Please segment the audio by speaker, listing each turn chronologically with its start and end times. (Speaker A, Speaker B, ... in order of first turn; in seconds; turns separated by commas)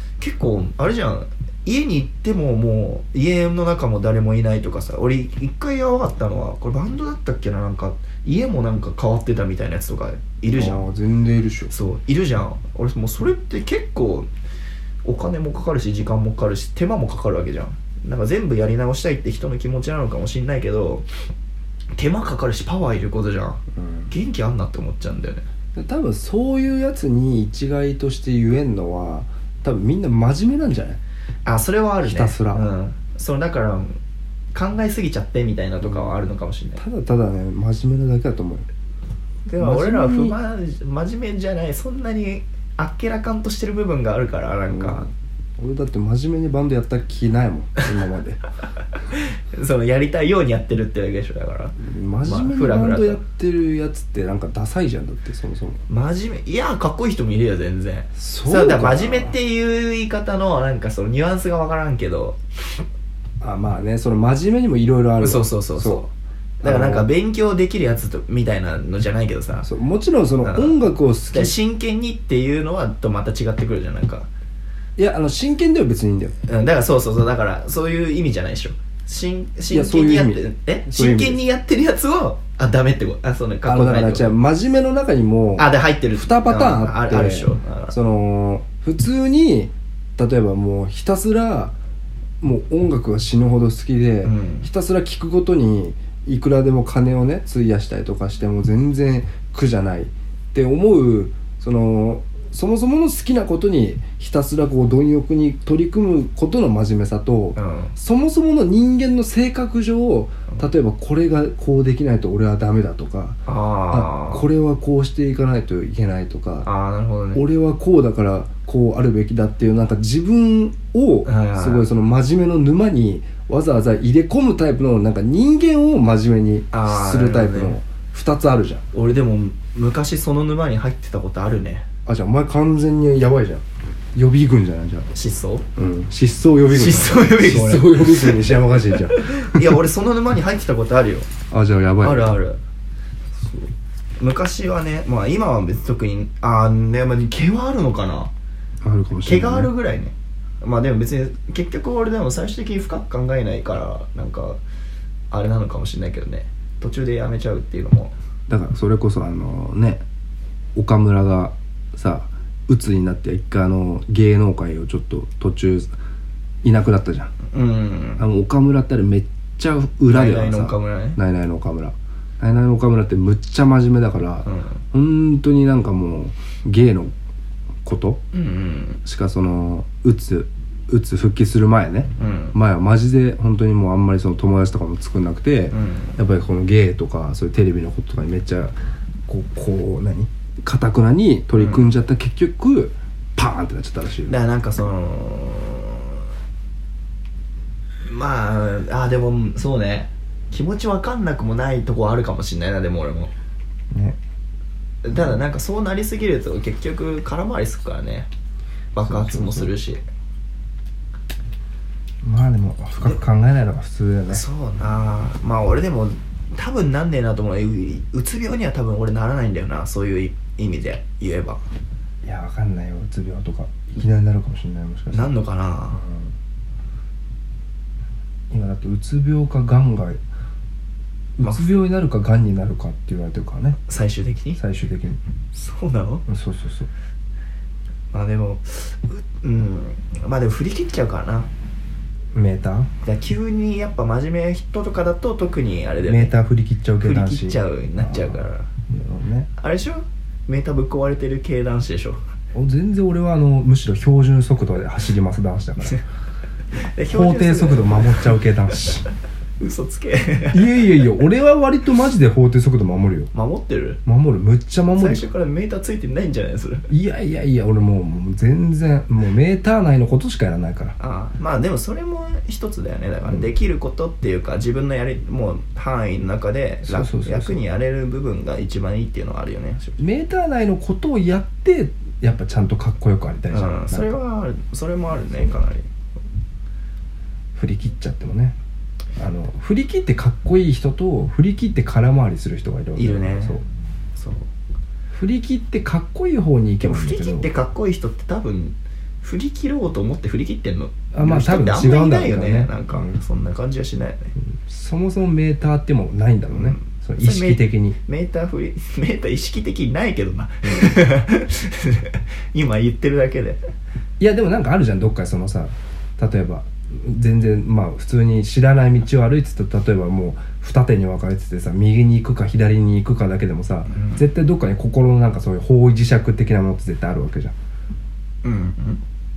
Speaker A: 0.2-10.9, Speaker B: 10.5-11.7, Speaker A: 11.7-14.3, Speaker A: 15.0-21.1, Speaker A: 22.0-25.4, Speaker B: 23.7-24.1, Speaker B: 25.8-31.0, Speaker A: 31.5-34.0, Speaker B: 32.0-32.6, Speaker A: 34.5-36.8, Speaker B: 35.8-36.1, Speaker B: 36.8-38.7, Speaker A: 39.5-45.1, Speaker B: 39.6-40.4, Speaker B: 44.7-48.4, Speaker A: 49.1-53.2, Speaker B: 51.8-55.8, Speaker A: 55.9-62.4, Speaker B: 58.1-59.3, Speaker B: 63.4-66.1, Speaker A: 65.2-66.1, Speaker A: 66.6-69.7, Speaker B: 66.6-67.1, Speaker B: 69.6-71.5, Speaker A: 70.4-70.8, Speaker A: 71.3-74.3, Speaker B: 75.0-76.3, Speaker A: 76.5-84.3, Speaker B: 79.7-81.4, Speaker B: 83.7-91.7, Speaker A: 85.6-88.0, Speaker B: 92.4-116.7, Speaker A: 94.2-94.7, Speaker A: 107.6-107.9, Speaker A: 113.5-114.5, Speaker A: 116.6-117.4, Speaker B: 117.3-128.8, Speaker A: 121.2-121.9, Speaker A: 126.7-127.8, Speaker A: 128.9-131.8, Speaker B: 132.1-133.6, Speaker B: 134.2-135.1, Speaker A: 135.1-135.7, Speaker B: 135.8-139.8, Speaker A: 136.7-141.3, Speaker B: 141.5-142.3, Speaker A: 142.0-142.6, Speaker A: 143.4-148.3, Speaker B: 148.8-149.7, Speaker A: 149.2-154.6, Speaker A: 155.3-158.1, Speaker B: 158.5-160.0, Speaker B: 160.8-165.9, Speaker B: 166.6-167.3, Speaker A: 167.5-168.2, Speaker B: 168.2-177.1, Speaker A: 170.1-171.2, Speaker A: 174.4-174.8, Speaker B: 177.8-178.2, Speaker A: 178.3-179.0, Speaker B: 179.1-188.8, Speaker A: 182.2-182.6, Speaker A: 185.7-186.2, Speaker B: 189.3-194.3, Speaker A: 191.5-191.9, Speaker A: 194.3-196.2, Speaker A: 198.1-203.3, Speaker B: 203.9-204.2, Speaker A: 205.0-208.3, Speaker B: 205.1-205.4, Speaker A: 208.9-210.0, Speaker B: 209.0-209.7, Speaker B: 212.2-214.4, Speaker A: 214.3-221.6, Speaker B: 222.2-225.3, Speaker A: 225.1-226.0, Speaker B: 225.9-226.3, Speaker B: 228.5-230.2, Speaker B: 231.4-233.8, Speaker A: 231.4-231.7, Speaker A: 233.9-234.6, Speaker B: 234.6-235.2, Speaker A: 235.5-236.2, Speaker B: 236.3-236.9, Speaker A: 238.1-241.5, Speaker B: 242.3-242.9, Speaker A: 243.0-246.3, Speaker B: 246.0-249.5, Speaker A: 247.0-248.7, Speaker A: 249.6-252.2, Speaker B: 252.5-256.0, Speaker A: 256.8-258.4, Speaker B: 257.1-259.1, Speaker A: 259.6-261.1, Speaker B: 260.5-263.3, Speaker A: 263.3-264.0, Speaker B: 264.1-265.3, Speaker A: 265.0-266.9, Speaker B: 266.9-270.9, Speaker A: 271.0-280.0, Speaker B: 273.2-273.5, Speaker B: 276.9-277.6, Speaker B: 280.0-284.2, Speaker A: 283.5-285.9, Speaker B: 287.6-288.6, Speaker B: 289.2-293.6, Speaker A: 293.0-293.6, Speaker A: 294.2-294.5, Speaker B: 295.1-297.5, Speaker A: 296.8-304.3, Speaker B: 301.1-303.2, Speaker B: 304.5-308.0, Speaker A: 306.5-313.6, Speaker B: 314.2-327.6, Speaker A: 323.9-324.2, Speaker A: 328.4-329.0